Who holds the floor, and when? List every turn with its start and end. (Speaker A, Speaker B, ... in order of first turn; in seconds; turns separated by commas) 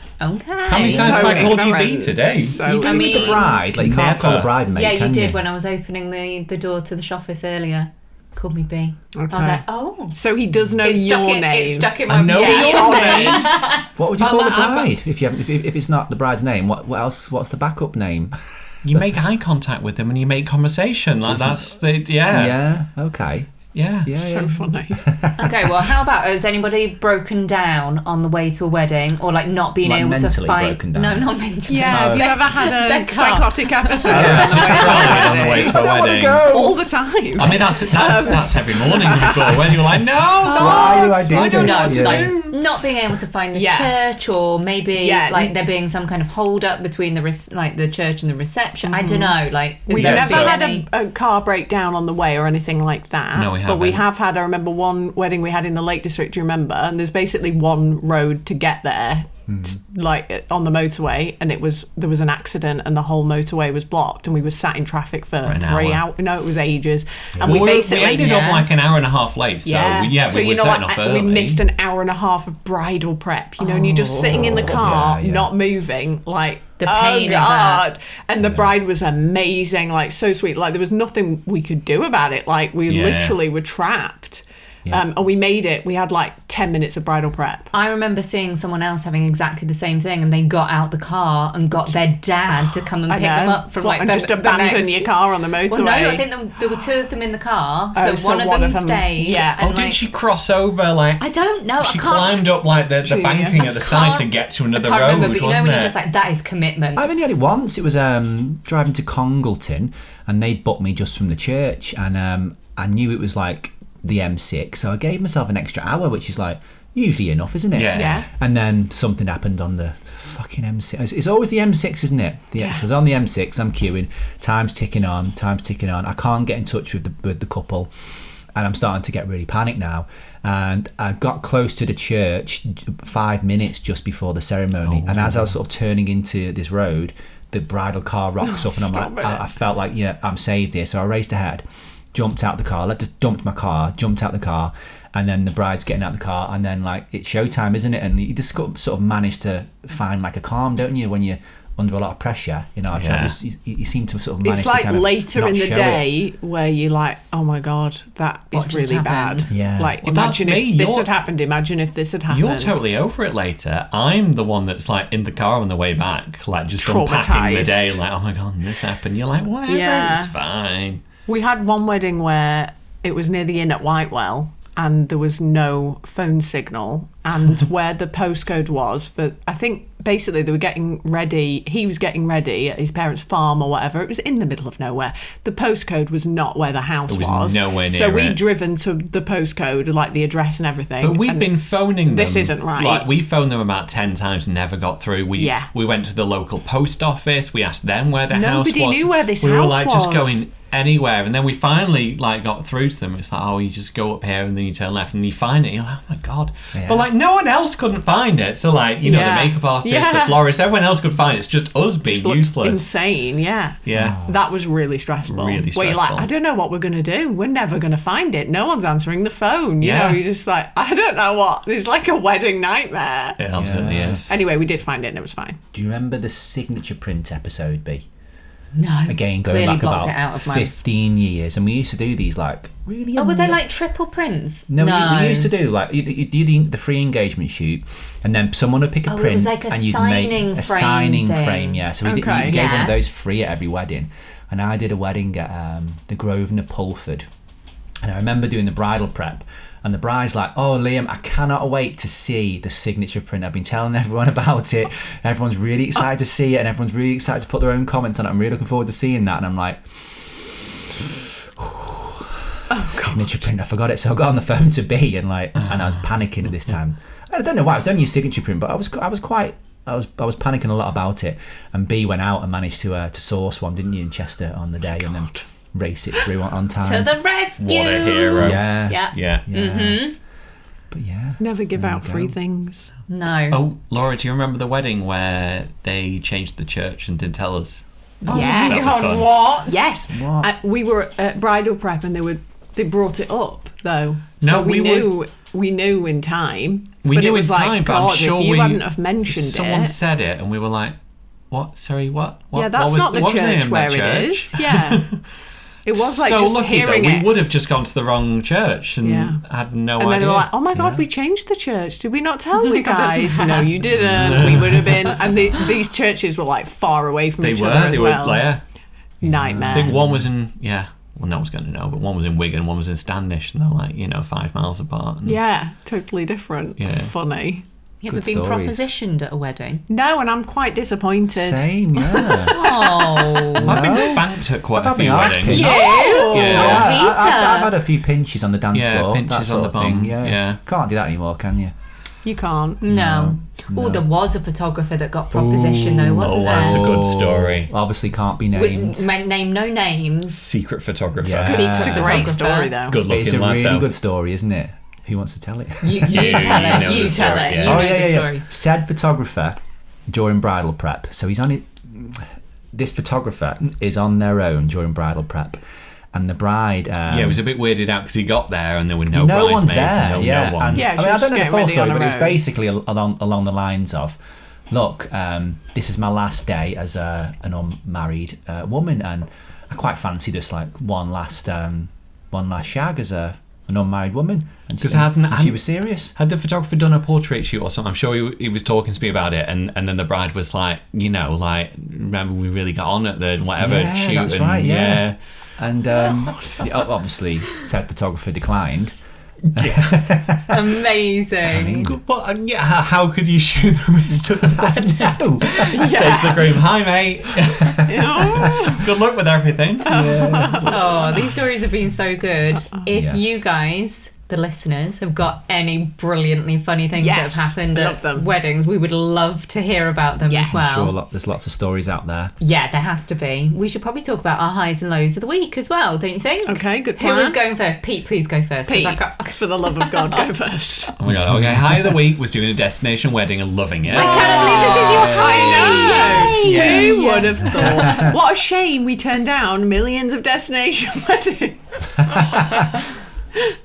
Speaker A: 0.2-1.4, Speaker B: 0.7-2.7, Speaker C: 0.7-3.6, Speaker D: 0.8-1.5, Speaker D: 2.6-5.4, Speaker A: 2.8-3.6, Speaker B: 3.8-4.5, Speaker A: 4.7-10.2, Speaker C: 9.2-9.6, Speaker C: 10.1-13.6, Speaker A: 10.8-13.9, Speaker B: 12.1-13.6, Speaker D: 14.0-19.0, Speaker B: 14.2-14.9, Speaker B: 18.9-22.6, Speaker D: 21.3-21.6, Speaker D: 22.3-23.5, Speaker B: 23.7-24.2, Speaker D: 24.1-25.9, Speaker C: 24.1-25.1, Speaker A: 25.4-35.1, Speaker D: 29.8-31.3, Speaker C: 31.7-35.8, Speaker D: 31.9-32.4, Speaker B: 34.0-36.5, Speaker D: 34.1-36.8, Speaker C: 36.5-42.0, Speaker B: 37.4-42.6, Speaker D: 40.5-42.4, Speaker A: 40.8-50.9, Speaker C: 43.5-43.9, Speaker C: 45.0-45.5, Speaker C: 48.9-68.5, Speaker B: 49.9-50.6, Speaker B: 53.3-54.0, Speaker D: 59.5-59.8, Speaker B: 65.4-66.0, Speaker D: 67.3-67.7, Speaker B: 67.4-71.6, Speaker A: 67.9-68.7, Speaker C: 69.7-87.7, Speaker A: 73.6-74.3, Speaker D: 74.3-75.5, Speaker B: 74.4-75.1, Speaker A: 76.8-77.9, Speaker B: 82.9-83.4, Speaker A: 87.7-95.1, Speaker C: 93.1-96.2, Speaker A: 95.7-100.0, Speaker C: 98.0-99.6, Speaker B: 99.6-101.3, Speaker A: 101.2-102.5, Speaker B: 101.8-106.0, Speaker C: 103.0-103.7, Speaker A: 103.6-107.1, Speaker D: 107.0-127.9, Speaker B: 117.8-118.2, Speaker C: 117.9-118.3, Speaker C: 122.6-122.8, Speaker D: 128.6-156.1, Speaker B: 134.8-135.5, Speaker C: 138.4-139.5, Speaker B: 152.9-153.3, Speaker C: 154.4-162.8, Speaker A: 158.5-159.5, Speaker D: 159.5-160.0, Speaker B: 160.0-161.1, Speaker B: 162.3-171.0, Speaker C: 166.8-167.9, Speaker C: 169.7-170.3, Speaker C: 171.3-193.1, Speaker B: 187.1-188.4, Speaker B: 191.0-212.9, Speaker C: 195.4-195.7, Speaker C: 198.3-200.4, Speaker D: 206.7-207.1, Speaker C: 209.0-210.4, Speaker C: 212.1-223.4, Speaker B: 213.8-214.2, Speaker D: 213.9-214.4, Speaker B: 215.3-216.3, Speaker B: 219.8-220.2, Speaker B: 223.4-224.3, Speaker D: 223.6-224.2, Speaker C: 224.1-225.6, Speaker D: 225.7-228.1, Speaker A: 228.7-230.7, Speaker D: 229.1-233.6, Speaker A: 233.2-235.5, Speaker D: 234.7-247.3, Speaker A: 239.1-243.0, Speaker C: 242.0-242.7, Speaker D: 248.0-277.1, Speaker C: 262.7-263.4, Speaker A: 276.8-280.2, Speaker B: 277.6-279.4, Speaker D: 278.4-280.1, Speaker D: 280.9-282.3, Speaker C: 281.4-282.9, Speaker A: 283.1-283.6, Speaker B: 283.5-289.3, Speaker A: 288.2-289.9, Speaker C: 288.3-299.9, Speaker D: 290.1-290.5, Speaker B: 294.4-295.2, Speaker B: 297.0-301.0, Speaker B: 301.5-305.2, Speaker C: 302.5-305.1, Speaker C: 305.9-307.3, Speaker B: 305.9-311.0, Speaker C: 309.0-309.4, Speaker C: 310.0-318.5, Speaker A: 312.6-314.4, Speaker B: 314.0-315.3, Speaker B: 317.4-318.6, Speaker C: 319.2-320.0, Speaker D: 319.2-320.3, Speaker B: 319.7-325.4, Speaker C: 325.3-327.6, Speaker B: 326.8-327.1, Speaker A: 328.0-329.8, Speaker D: 328.1-328.8, Speaker C: 329.9-333.4, Speaker D: 331.3-332.6, Speaker A: 332.5-333.9, Speaker D: 333.5-341.7, Speaker B: 333.6-336.9, Speaker C: 335.5-336.9, Speaker A: 335.5-337.7, Speaker B: 338.7-340.6, Speaker C: 342.2-342.8, Speaker A: 342.8-347.0, Speaker D: 342.9-344.1, Speaker B: 345.4-347.7, Speaker D: 346.4-349.1, Speaker A: 348.5-350.5, Speaker B: 350.3-353.9, Speaker D: 351.2-352.3, Speaker C: 351.4-353.0, Speaker A: 351.5-352.8, Speaker D: 353.1-359.6, Speaker A: 355.8-358.4, Speaker B: 356.1-357.9, Speaker D: 360.1-365.6, Speaker D: 366.1-367.4, Speaker B: 367.1-370.9, Speaker D: 369.1-374.2, Speaker C: 370.7-372.4, Speaker D: 374.7-386.1, Speaker B: 384.8-395.2, Speaker D: 393.6-398.9, Speaker C: 396.0-396.7, Speaker B: 399.5-400.1, Speaker D: 399.6-400.8, Speaker A: 400.5-401.9, Speaker D: 401.4-402.0, Speaker B: 401.8-410.1, Speaker D: 404.4-405.9, Speaker C: 405.6-406.6, Speaker D: 407.6-408.8, Speaker C: 407.9-408.9, Speaker C: 409.8-411.3, Speaker D: 409.9-411.3, Speaker A: 410.6-420.9, Speaker D: 412.9-413.4, Speaker C: 417.0-418.3, Speaker C: 420.3-420.9, Speaker D: 420.5-422.3, Speaker A: 422.4-430.2, Speaker C: 426.5-427.4, Speaker C: 428.7-430.9, Speaker B: 431.0-434.8, Speaker D: 431.1-432.0, Speaker C: 433.9-442.7, Speaker A: 433.9-438.0, Speaker D: 435.0-436.8, Speaker B: 436.5-436.8, Speaker D: 437.4-438.2, Speaker D: 442.2-442.6